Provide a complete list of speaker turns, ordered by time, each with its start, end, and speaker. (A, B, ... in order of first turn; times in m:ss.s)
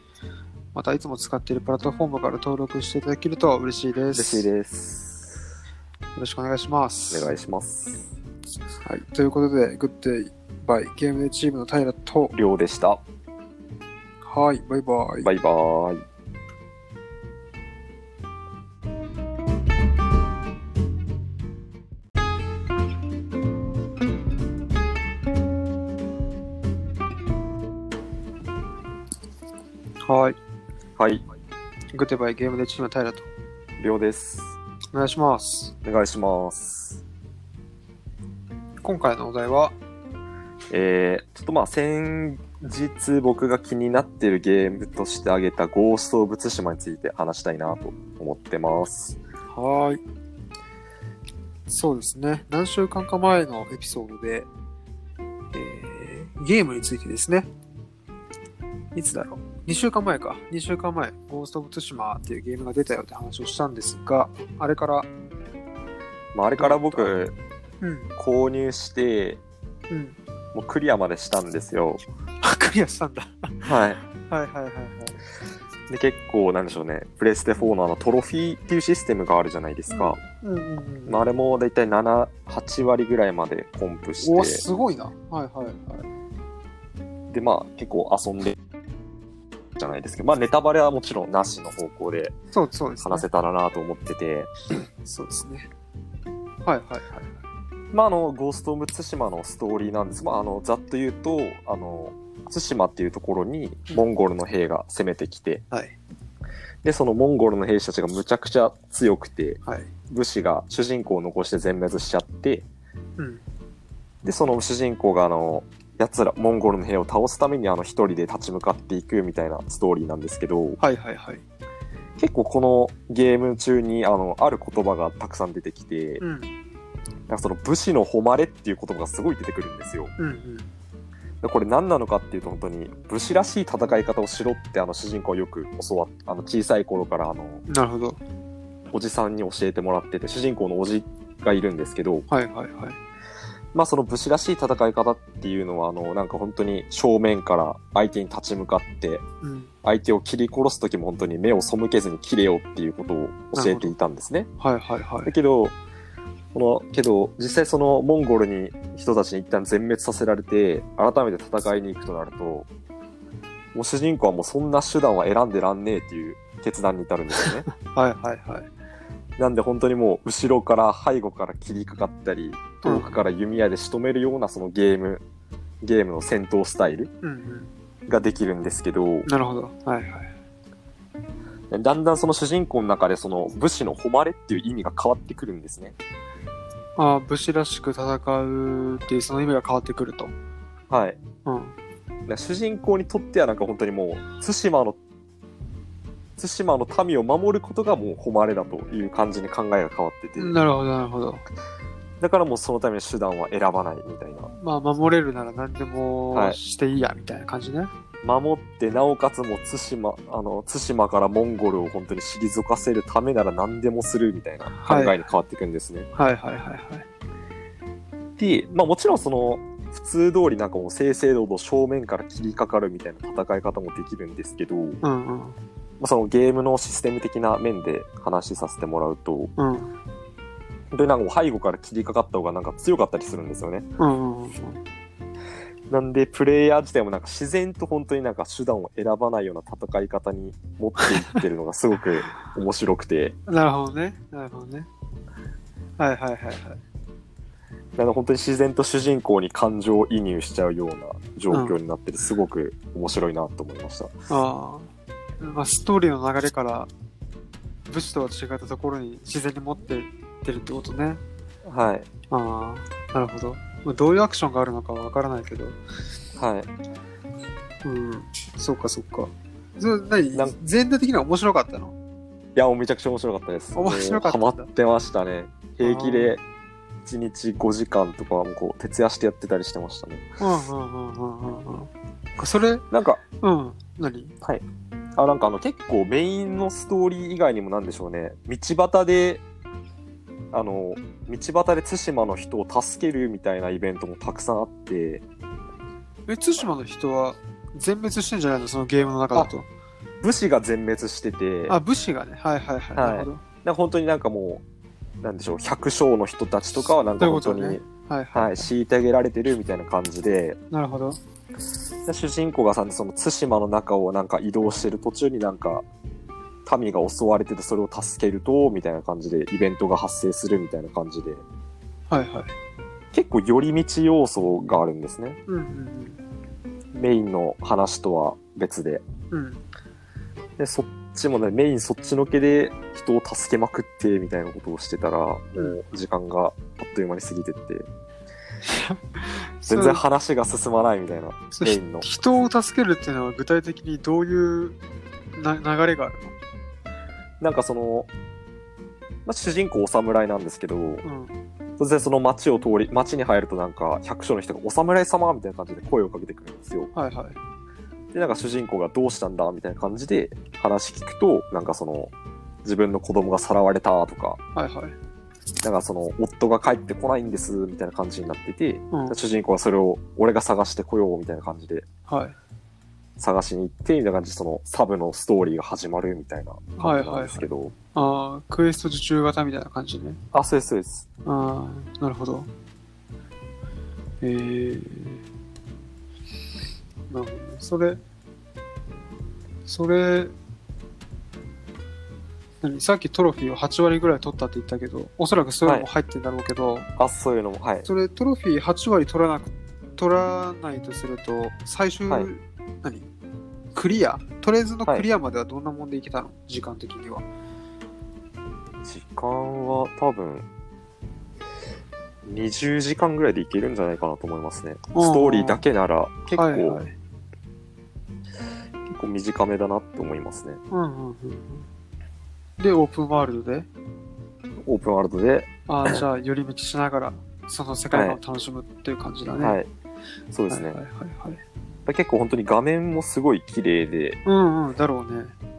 0:00.7-0:04.5 A
0:04.1-0:05.4 B
0:06.2-0:07.3 A
0:07.1-0:08.1 B
0:08.8-0:12.4 A
0:12.3-0:13.0 B
0:14.2-0:15.3 A
0:15.2-0:16.0 B
0:30.0-0:30.4 A
0:31.0-0:31.2 B
0:31.9-0:33.3 A
0:33.8-0:34.6 B
0:34.9-0:35.7 A
0:35.8-0:37.0 B
0:38.8-0:39.8 A
0:40.7-0:49.2 B
0:49.5-0:50.0 A
0:51.7-0:54.5 A
0:55.5-0:57.5 A
0:58.9-1:05.1 A
1:06.3-1:07.4 B
1:06.6-1:07.2 A
1:07.8-1:08.1 A
1:08.2-1:09.4 B
1:09.9-1:10.2 A
1:10.5-1:12.0 B
1:12.4-1:15.2 A
1:13.6-1:14.0 B
1:15.9-1:20.2 B
1:19.9-1:21.3 A
1:21.1-1:24.6 B
1:24.2-1:26.1 A
1:27.3-1:28.6 B
1:29.8-1:32.4 B
1:32.5-1:33.3 A
1:33.0-1:34.5 B
1:35.0-1:35.7 A
1:36.6-1:37.3 A
1:37.9-1:45.6 B
1:45.7-1:46.0 A
1:46.8-1:52.7 B
1:49.6-1:49.9 A
1:53.2-1:53.4 A
1:54.2-2:00.8 B
2:00.8-2:01.4 A
2:02.2-2:06.2 B
2:06.2-2:06.5 A
2:07.3-2:10.1 B
2:10.2-2:10.7 A
2:11.4-2:17.6 B
2:17.7-2:18.2 A
2:18.9-2:22.3 B
2:22.3-2:23.0 A
2:23.7-2:29.2 B
2:29.4-2:29.7 A
2:29.8-2:34.5 B
2:33.6-2:33.9 A
2:34.6-2:35.3 A
2:35.3-2:35.8 B
2:36.5-2:42.7 B
2:43.7-2:47.7 B
2:47.8-2:48.7 A
2:49.4-2:55.2 B
2:52.8-2:53.2 A
2:55.8-2:57.1 B
2:57.2-2:57.7 A
2:58.1-2:59.3 B
2:59.3-3:00.3 A
3:01.7-3:06.0 B
3:07.0-3:10.3 A
3:10.9-3:11.2 B
3:11.5-3:11.8 A
3:12.3-3:15.0 B
3:16.4-3:20.6 B
3:20.4-3:21.4 A
3:22.2-3:24.5 B
3:24.5-3:27.9 A
3:26.3-3:26.6 B
3:28.2-3:36.1 B
3:34.7-3:35.2 A
3:36.2-3:37.1 A
3:38.4-3:45.0 B
3:45.0-3:45.6 A
3:46.0-3:49.5 B
3:49.6-3:49.9 A
3:50.9-3:53.9 B
3:54.0-3:54.8 A
3:55.9-4:03.4 B
4:01.0-4:01.4 A
4:03.5-4:04.9 A
4:06.0-4:06.8 A
4:08.0-4:14.1 B
4:11.5-4:11.8 A
4:14.3-4:16.9 A
4:17.9-4:21.2 A
4:21.6-4:22.1 B
4:22.3-4:25.8 A
4:26.4-4:26.7 B
4:27.8-4:31.9 A
4:32.6-4:36.4 B
4:33.8-4:34.7 A
4:35.8-4:36.4 A
4:37.0-4:40.3 B
4:40.4-4:42.8 A
4:42.9-4:43.2 B
4:43.4-4:44.4 A
4:45.2-4:49.4 B
4:50.5-4:55.2 B
4:56.3-4:59.7 A
5:00.2-5:01.8 B
5:01.7-5:03.4 A
5:03.0-5:04.6 B
5:05.2-5:07.8 B
5:07.2-5:08.7 A
5:08.3-5:10.6 B
5:10.7-5:11.2 A
5:12.0-5:15.8 B
5:16.7-5:21.4 B
5:22.1-5:22.5 A
5:23.1-5:25.4 B
5:25.5-5:26.2 A
5:26.9-5:29.0 B
5:29.3-5:29.6 A
5:30.6-5:37.9 B
5:35.6-5:35.8 A
5:38.6-5:40.0 A
5:39.7-5:42.1 B
5:41.5-5:44.8 A
5:45.4-5:46.3 A
5:47.4-5:48.1 B
5:49.3-5:51.0 B
5:51.0-5:51.4 A
5:51.8-5:56.9 B
5:56.9-5:57.4 A
5:58.1-6:02.1 B
6:02.6-6:04.4 B
6:04.6-6:05.0 A
6:05.6-6:11.9 B
6:08.9-6:09.2 A
6:12.1-6:12.4 A
6:13.2-6:17.7 B
6:16.8-6:20.2 A
6:20.3-6:21.1 B
6:21.3-6:22.5 A
6:24.2-6:25.2 A
6:27.1-6:28.0 A
6:29.7-6:30.3 A
6:32.6-6:36.9 A
6:37.0-6:37.9 B
6:37.8-6:43.1 A
6:43.7-6:47.2 A
6:48.8-6:50.5 B
6:52.2-6:56.8 B
6:54.9-6:55.6 A
6:56.3-6:56.9 A
6:58.9-7:00.6 B
7:00.7-7:01.7 A
7:02.6-7:03.7 A
7:04.7-7:06.0 B
7:05.7-7:09.6 A
7:07.9-7:08.2 B
7:09.4-7:09.7 B
7:10.3-7:10.8 B
7:10.5-7:11.4 A
7:11.9-7:14.2 B
7:14.2-7:15.4 A